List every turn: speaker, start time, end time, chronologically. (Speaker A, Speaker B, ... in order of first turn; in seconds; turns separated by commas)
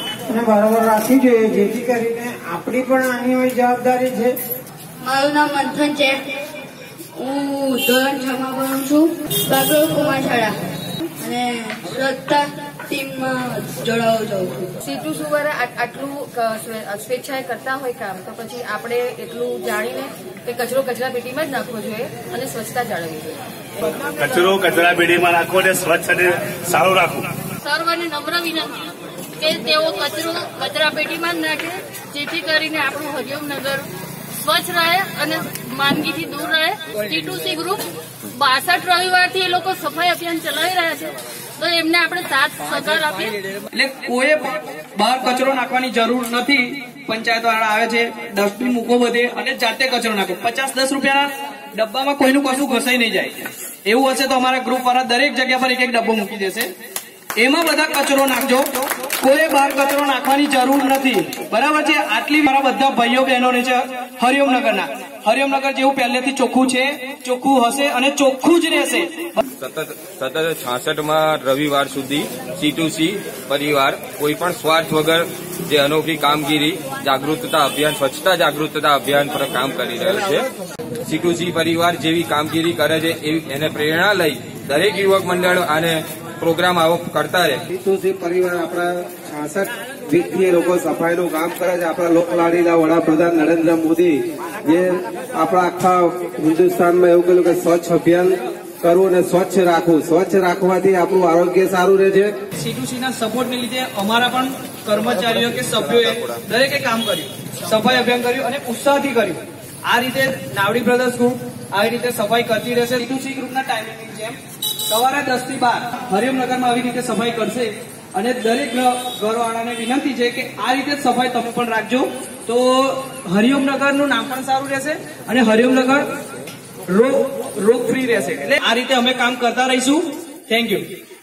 Speaker A: 0.3-4.3, Speaker B: 5.0-6.3, Speaker B: 7.2-10.6, Speaker B: 11.2-14.7, Speaker C: 14.8-23.4, Speaker D: 24.1-27.3, Speaker E: 27.6-28.8, Speaker E: 29.4-33.8, Speaker E: 34.4-43.3, Speaker F: 43.7-56.7, Speaker F: 57.4-69.4, Speaker G: 69.6-80.5, Speaker G: 81.0-87.6, Speaker H: 87.7-102.3, Speaker F: 102.6-114.4, Speaker G: 105.3-106.4, Speaker F: 114.9-126.1, Speaker F: 126.9-130.8